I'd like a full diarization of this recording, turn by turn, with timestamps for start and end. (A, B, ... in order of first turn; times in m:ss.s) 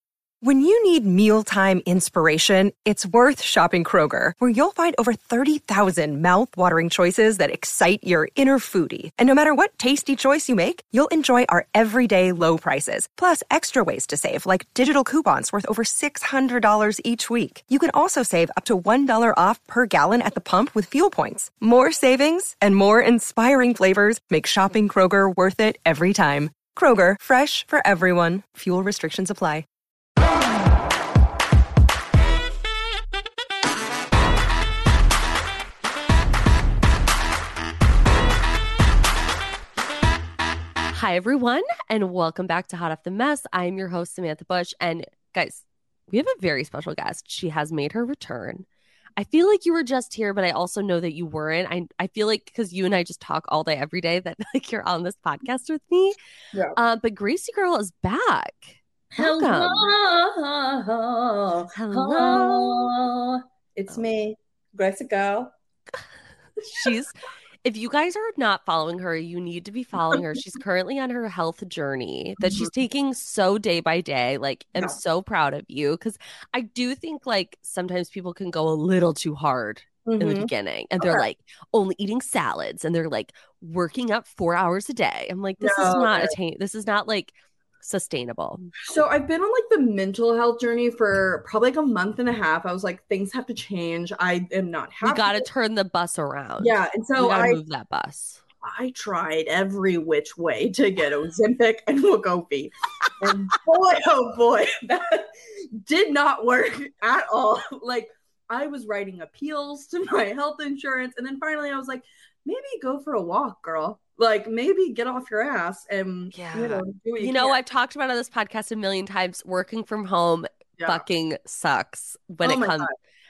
0:00.4-0:29.6 A
0:40.9-0:48.6 B
0:49.2-0:56.2 B
0:56.7-0:59.9 B
0:59.1-1:05.5 C
1:01.7-1:02.9 B
1:06.6-1:28.7 B
1:12.4-1:12.7 C
1:20.0-1:21.2 C
1:25.6-1:26.4 C
1:28.8-1:35.5 C
1:35.0-1:38.4 B
1:36.6-1:37.6 C
1:38.6-1:57.6 C
1:56.3-2:02.9 B
2:00.8-2:01.0 C
2:02.4-2:02.9 C